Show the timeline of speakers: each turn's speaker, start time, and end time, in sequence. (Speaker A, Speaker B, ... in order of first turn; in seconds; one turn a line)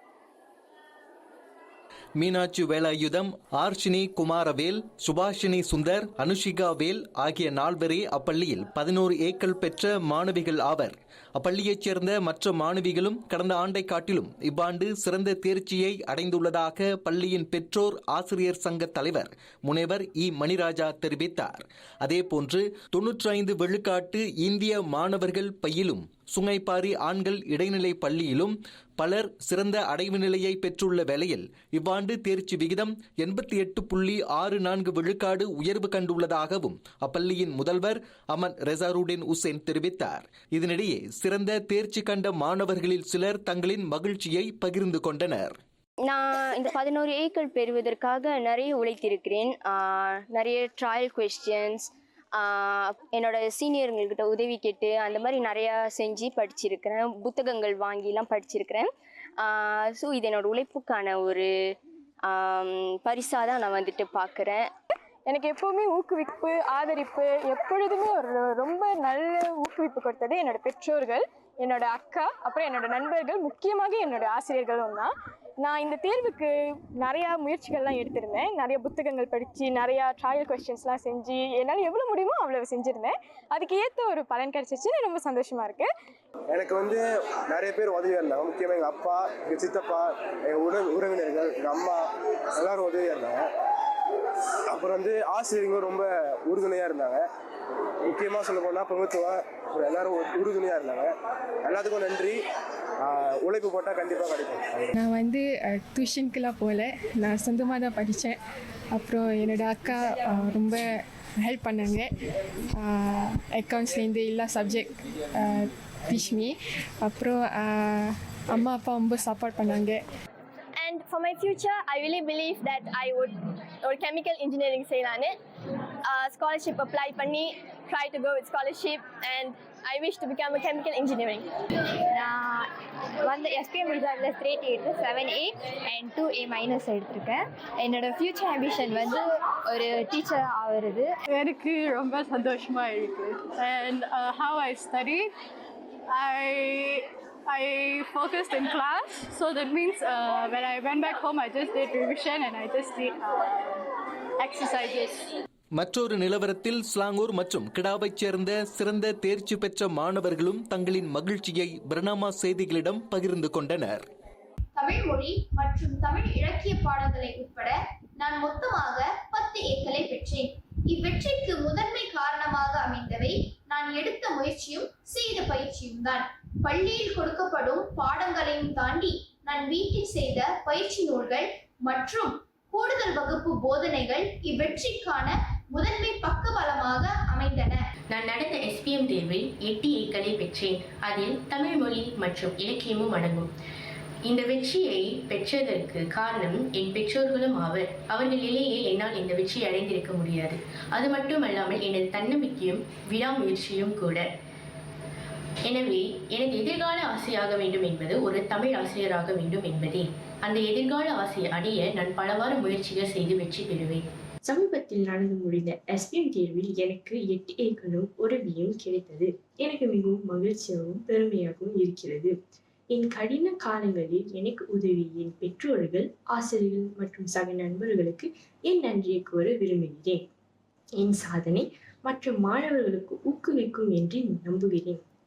Speaker A: 2.2-45.5
Speaker B: 46.0-61.7
Speaker B: 62.3-64.7
Speaker C: 65.2-85.9
Speaker D: 86.5-92.0
Speaker D: 92.6-93.5
Speaker D: 94.7-97.2
Speaker D: 98.1-101.1
Speaker D: 101.6-102.4
Speaker D: 103.0-104.9
Speaker E: 105.0-108.4
Speaker E: 108.9-110.8
Speaker E: 111.4-112.1
Speaker E: 112.8-120.0
Speaker F: 120.8-125.4
Speaker F: 126.0-131.5
Speaker G: 132.1-132.7
Speaker G: 133.2-141.1
Speaker H: 141.3-145.3
Speaker H: 146.1-153.8
Speaker H: 154.4-155.3
Speaker A: 155.8-164.0
Speaker I: 164.8-187.8
Speaker J: 188.1-193.5
Speaker J: 194.3-204.3
Speaker J: 205.7-214.1
Speaker K: 214.4-222.3
Speaker K: 222.9-230.2
Speaker K: 231.0-235.0